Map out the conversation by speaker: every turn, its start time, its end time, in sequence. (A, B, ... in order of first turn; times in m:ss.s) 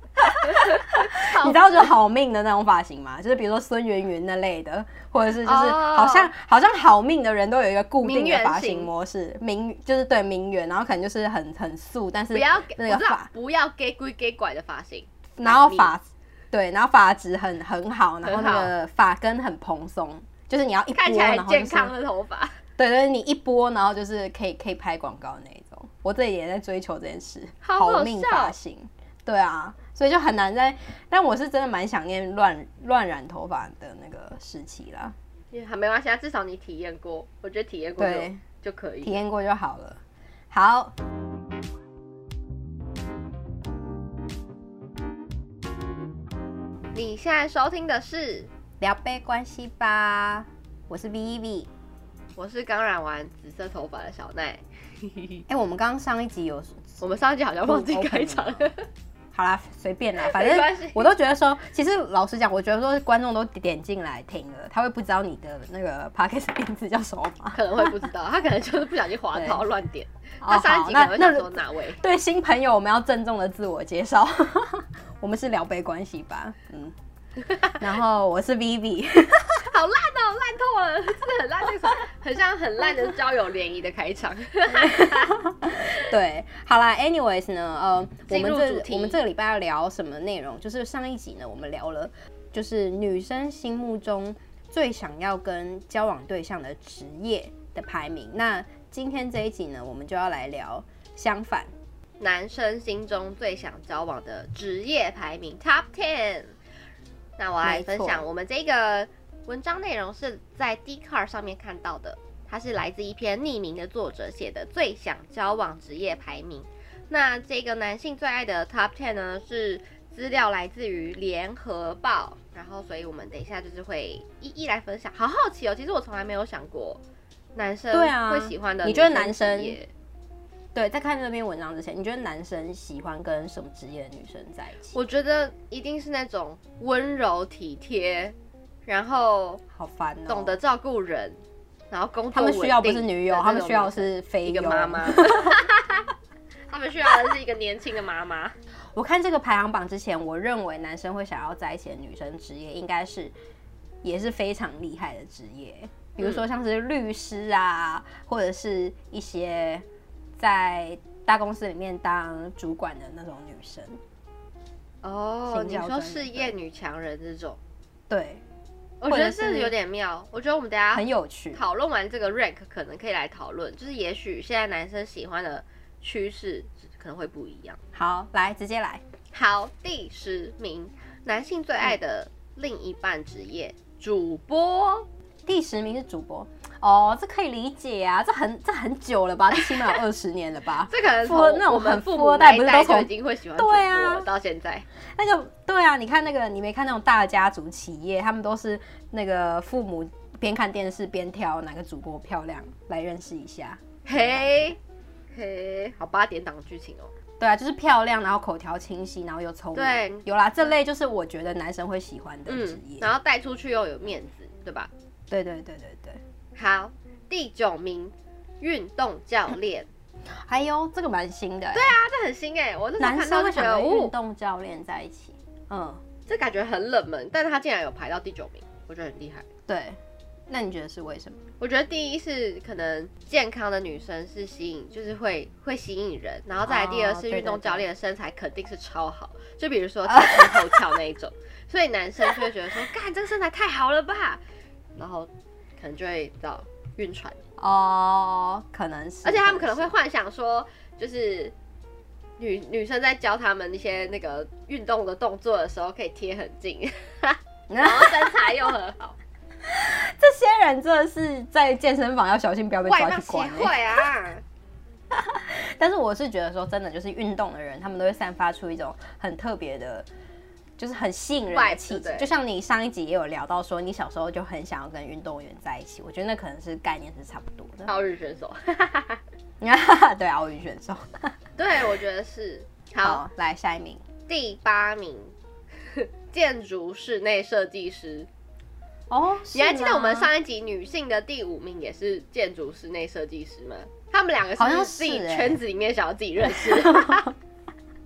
0:00.2-0:13.3 A
0:00.4-0:01.9 B
0:05.4-0:06.3 B
0:08.0-0:08.9 B
0:12.3-0:15.9 B
0:15.4-0:21.9 A
0:18.2-0:18.7 B
0:20.9-0:22.6 B
0:22.8-0:35.2 A
0:27.6-0:28.6 B
0:35.5-0:39.2 B
0:38.0-0:38.4 A
0:39.0-0:40.0 A
0:40.5-0:40.9 A
0:47.0-0:48.5 B
0:48.8-0:51.7 A
0:52.4-0:55.4 B
0:55.5-0:57.0 A
0:57.0-0:58.9 B
0:57.6-0:58.7 A
0:59.3-1:07.8 A
1:00.2-1:01.2 B
1:07.5-1:12.0 B
1:09.3-1:09.6 A
1:10.4-1:16.9 A
1:17.7-1:19.7 A
1:19.7-1:25.4 B
1:24.8-1:41.7 A
1:28.3-1:29.2 B
1:42.2-1:46.5 B
1:47.4-2:07.0 B
1:47.6-1:48.2 A
2:07.6-2:09.9 B
2:07.9-2:09.8 A
2:10.8-2:15.0 A
2:14.9-2:19.6 B
2:19.7-2:20.6 A
2:20.3-2:21.4 B
2:21.9-2:26.1 B
2:22.3-2:25.6 A
2:26.7-2:28.6 B
2:29.0-2:33.3 A
2:34.0-2:39.8 A
2:40.4-2:44.0 A
2:45.0-2:47.6 B
2:45.5-2:46.5 A
2:48.1-2:48.4 A
2:49.0-2:57.8 B
2:49.1-2:49.7 A
2:50.9-2:51.6 A
2:57.9-2:59.0 A
2:59.3-3:05.1 B
3:05.5-3:14.2 A
3:09.6-3:10.0 B
3:10.9-3:14.8 B
3:15.2-3:24.8 A
3:24.1-3:24.8 B
3:25.3-3:27.1 B
3:27.4-3:33.1 A
3:29.8-3:30.3 B
3:32.5-3:34.9 B
3:35.3-3:36.2 A
3:36.6-3:39.9 B
3:40.4-3:42.0 A
3:41.7-3:44.2 B
3:43.0-3:46.0 A
3:46.3-3:49.5 B
3:49.7-3:50.0 A
3:50.5-3:51.4 A
3:51.6-4:04.4 B
3:56.7-3:57.8 A
4:00.1-4:00.9 A
4:05.0-4:07.4 B
4:07.6-4:09.9 A
4:09.2-4:11.6 B
4:12.4-4:19.2 B
4:17.7-4:18.6 A
4:19.7-4:24.0 A
4:22.8-4:24.4 B
4:25.1-4:30.1 A
4:30.8-4:37.9 A
4:31.5-4:32.3 B
4:37.9-4:39.2 B
4:39.6-4:41.3 A
4:41.6-4:43.2 B
4:43.0-4:44.0 A
4:44.3-4:45.3 B
4:45.9-4:48.3 B
4:49.1-4:50.3 A
4:49.5-4:57.3 B
4:54.6-4:55.6 A
4:56.5-4:57.3 A